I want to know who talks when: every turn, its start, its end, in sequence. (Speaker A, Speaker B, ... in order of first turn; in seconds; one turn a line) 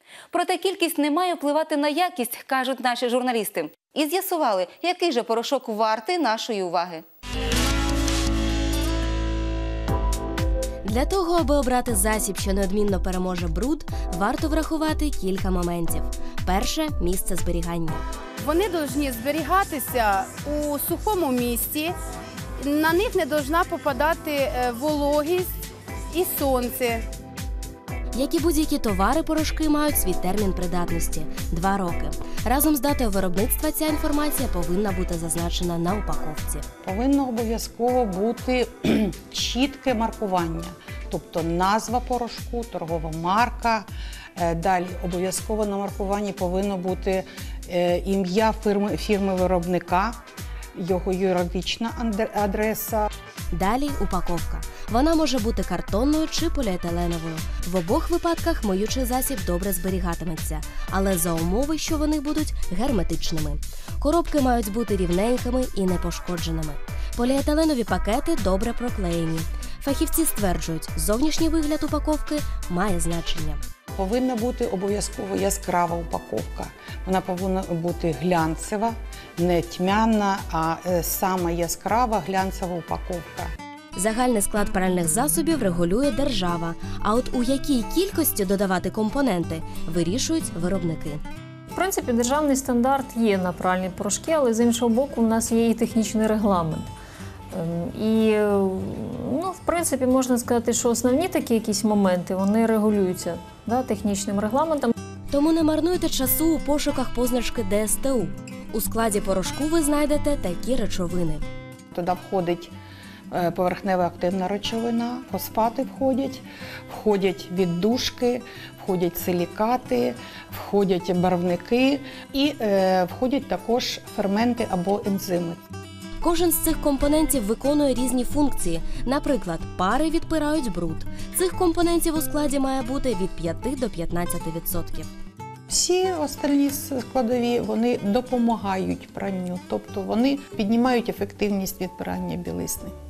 Speaker A: 0.3-7.0
Speaker B: 10.8-18.0
Speaker C: 18.4-21.9
Speaker C: 22.6-25.5
Speaker C: 26.1-27.0
Speaker B: 28.1-36.6
Speaker D: 36.8-50.2
Speaker D: 50.8-53.1
Speaker B: 53.5-73.6
Speaker D: 74.0-83.5
Speaker B: 84.0-91.2
Speaker E: 91.7-96.9
Speaker E: 97.5-104.9
Speaker B: 105.3-111.4
Speaker D: 111.9-112.7
Speaker D: 113.3-125.6
Speaker B: 126.2-135.1
Speaker D: 135.7-142.9